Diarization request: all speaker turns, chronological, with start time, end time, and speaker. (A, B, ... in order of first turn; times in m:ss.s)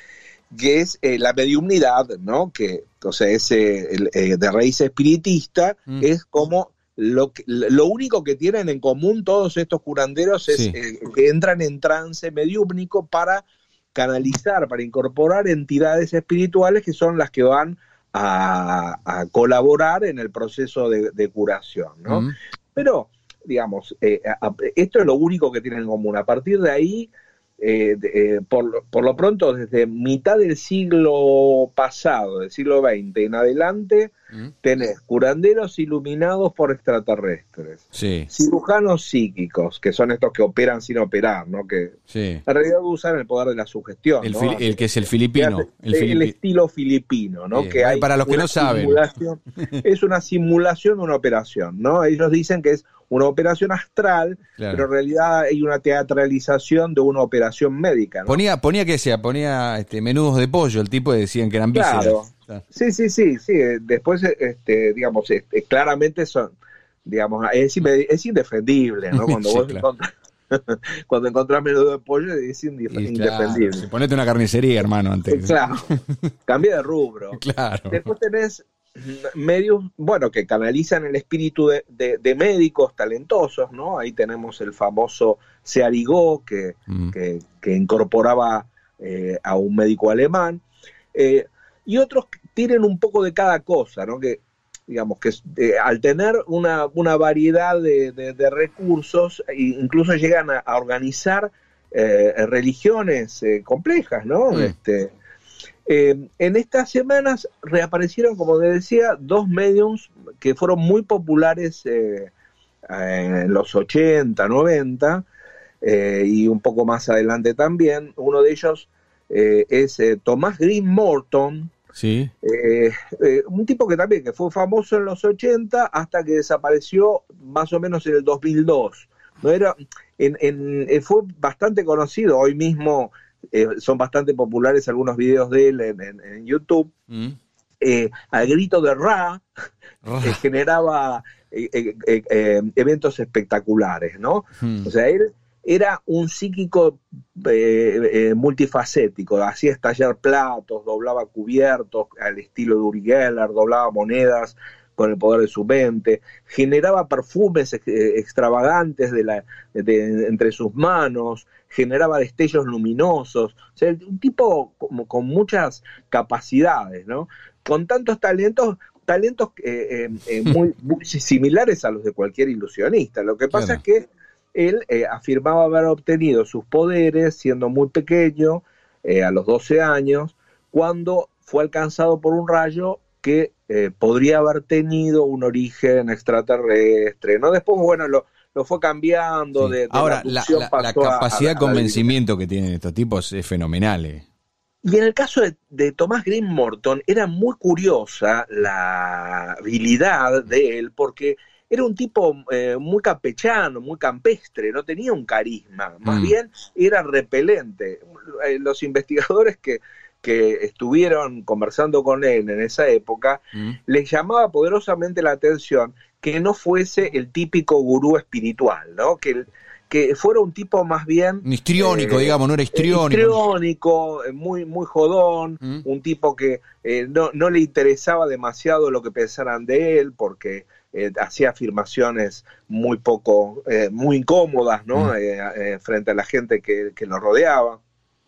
0:00.5-0:34.1 A
0:10.5-0:10.8 B
0:22.1-0:22.3 B
0:34.6-0:44.8 A
0:37.9-0:38.3 B
0:42.1-0:42.4 B
0:44.2-0:46.3 B
0:45.3-0:58.4 A
0:47.5-0:49.0 B
0:54.6-0:54.8 B
0:58.3-1:02.6 B
1:01.7-1:13.8 A
1:09.1-1:09.8 B
1:12.9-1:16.0 B
1:15.3-1:15.9 A
1:16.5-1:30.6 A
1:17.3-1:18.0 B
1:31.1-1:45.1 A
1:45.8-1:52.3 A
1:52.9-1:55.2 A
1:55.8-2:01.7 A
2:01.9-2:02.3 B
2:02.4-2:16.9 A
2:17.1-2:17.4 B
2:17.8-2:19.4 A
2:20.0-2:20.4 B
2:20.2-3:12.1 A
2:24.6-2:24.9 B
2:53.5-2:53.8 B
3:09.6-3:14.2 B
3:14.8-3:57.8 A
3:26.0-3:26.3 B
3:41.4-3:43.4 B